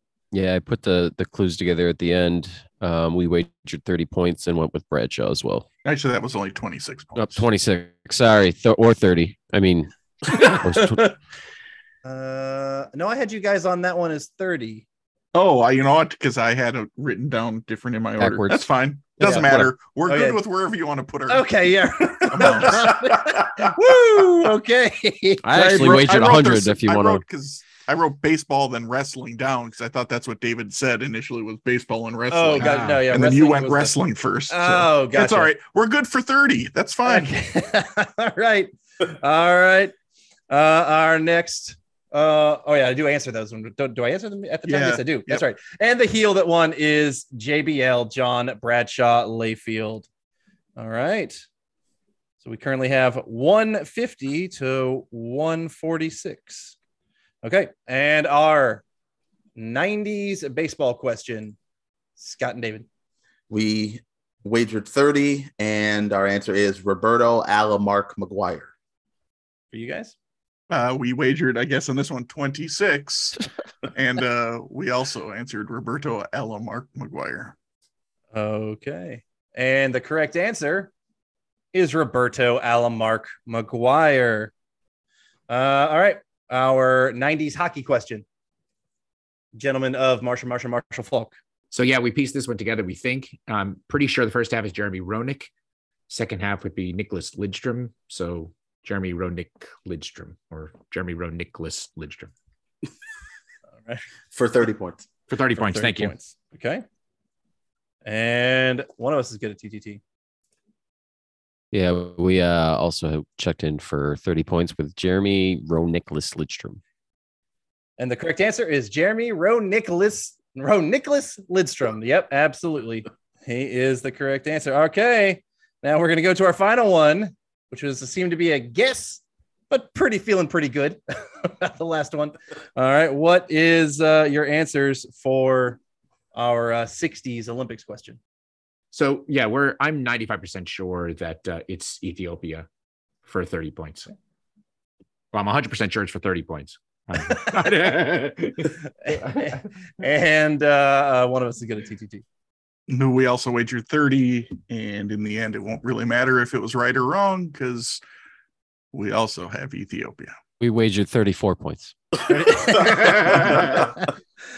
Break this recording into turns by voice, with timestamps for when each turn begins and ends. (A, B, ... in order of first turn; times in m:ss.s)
0:00.3-0:05.7 A
0:05.8-0:07.5 B
0:07.2-0:11.1 A
0:12.0-0:14.8 C
0:15.3-0:21.5 B
0:18.2-0:18.6 A
0:19.2-0:19.7 A
0:19.2-0:19.5 C
0:20.1-0:20.4 C
0:21.3-0:26.4 C
0:22.3-0:23.0 B
0:25.4-0:27.2 A
0:25.6-0:37.3 B
0:32.3-0:34.0 C
0:32.6-0:33.1 D
0:34.5-0:35.5 C
0:37.0-0:39.9 C
0:40.5-0:50.1 C
0:44.6-0:45.4 B
0:50.8-0:51.4 C
0:52.4-0:56.8 C
0:57.4-0:58.8 C
0:59.6-1:01.6 C
1:02.2-1:02.9 C
1:03.5-1:08.7 E
1:09.7-1:10.2 C
1:10.7-1:13.4 B
1:13.9-1:17.6 B
1:18.3-1:20.9 C
1:21.7-1:24.5 C
1:25.5-1:28.2 C
1:29.6-1:31.3 C
1:31.7-1:35.5 D
1:36.1-1:42.3 D
1:44.3-1:45.1 E
1:45.3-1:46.2 D
1:45.6-1:46.8 C
1:48.0-1:50.0 C
1:51.7-1:56.8 A
1:58.0-2:15.8 C
2:16.3-2:18.2 C
2:18.9-2:22.7 D
2:23.2-2:24.1 D
2:25.3-2:29.5 D
2:27.3-2:27.6 C
2:29.0-2:32.2 C
2:32.9-2:38.0 B
2:38.9-2:40.3 B
2:40.6-2:41.9 A
2:42.2-2:44.0 C
2:42.9-2:43.5 D